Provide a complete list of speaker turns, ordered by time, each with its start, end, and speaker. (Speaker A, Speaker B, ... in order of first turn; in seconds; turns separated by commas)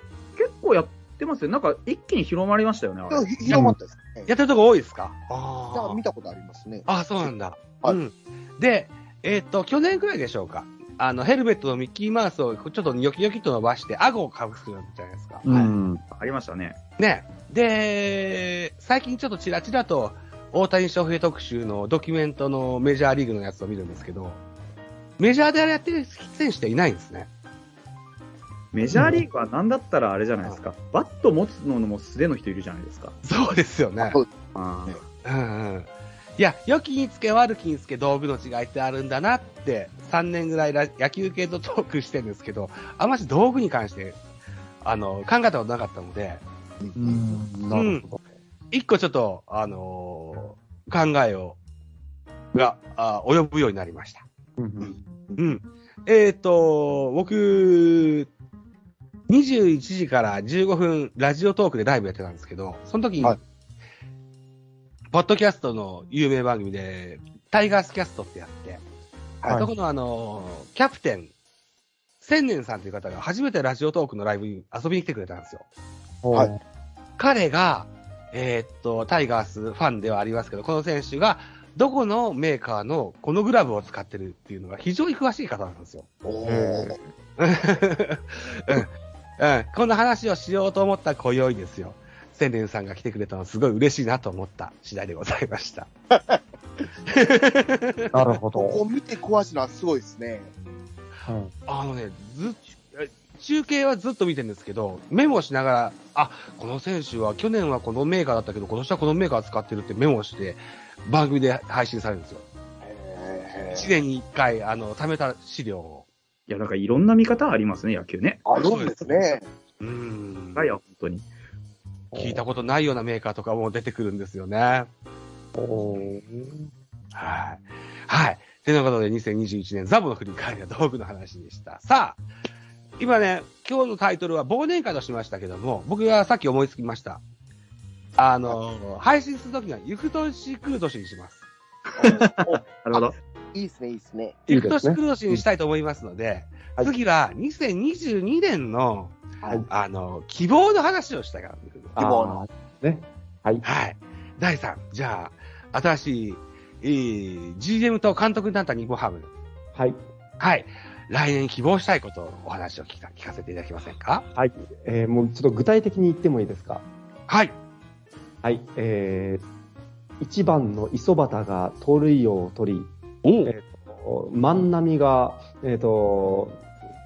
Speaker A: 0.4-3.6, Speaker B: 3.1-4.3, Speaker C: 3.5-3.8, Speaker D: 4.3-6.0, Speaker B: 5.7-8.0, Speaker D: 6.8-15.4, Speaker A: 15.4-16.8, Speaker C: 15.4-16.0, Speaker D: 17.0-24.4, Speaker D: 25.2-27.3, Speaker A: 28.7-33.2, Speaker C: 28.9-29.2, Speaker D: 33.2-34.2, Speaker B: 34.0-34.3, Speaker A: 34.5-35.0, Speaker D: 35.2-44.2, Speaker D: 44.8-46.4, Speaker B: 46.8-47.4, Speaker C: 46.9-48.2, Speaker D: 47.7-48.0, Speaker D: 48.7-51.6, Speaker D: 52.5-54.2, Speaker C: 54.6-54.9, Speaker D: 55.4-58.3, Speaker D: 59.3-63.4, Speaker D: 65.1-68.8, Speaker D: 69.5-71.3, Speaker D: 72.2-75.6, Speaker C: 76.2-76.6, Speaker D: 77.2-86.1, Speaker B: 86.2-87.0, Speaker C: 86.5-87.0, Speaker D: 87.4-95.9, Speaker B: 96.1-96.4, Speaker D: 97.1-98.1, Speaker C: 98.1-98.8, Speaker B: 98.5-100.5, Speaker C: 101.2-101.5, Speaker D: 101.7-112.4, Speaker B: 112.8-113.9, Speaker D: 113.7-116.1, Speaker A: 116.5-118.4, Speaker B: 118.4-119.5, Speaker D: 118.6-119.0, Speaker D: 119.8-120.7, Speaker A: 120.5-121.2, Speaker C: 122.1-122.4, Speaker D: 122.1-124.9, Speaker C: 125.5-126.7, Speaker D: 127.1-132.2, Speaker D: 133.0-137.2, Speaker D: 138.2-141.4, Speaker B: 142.0-142.6, Speaker A: 142.0-143.2, Speaker B: 143.5-144.4, Speaker D: 144.5-151.9, Speaker C: 144.5-145.4, Speaker B: 149.4-149.7, Speaker C: 152.0-153.6, Speaker B: 152.0-152.4, Speaker D: 153.6-159.3, Speaker C: 159.7-160.0, Speaker D: 160.4-164.2, Speaker C: 164.3-166.8, Speaker D: 167.3-167.6, Speaker C: 168.4-169.4, Speaker C: 170.2-172.9, Speaker D: 173.2-173.5, Speaker C: 173.4-176.6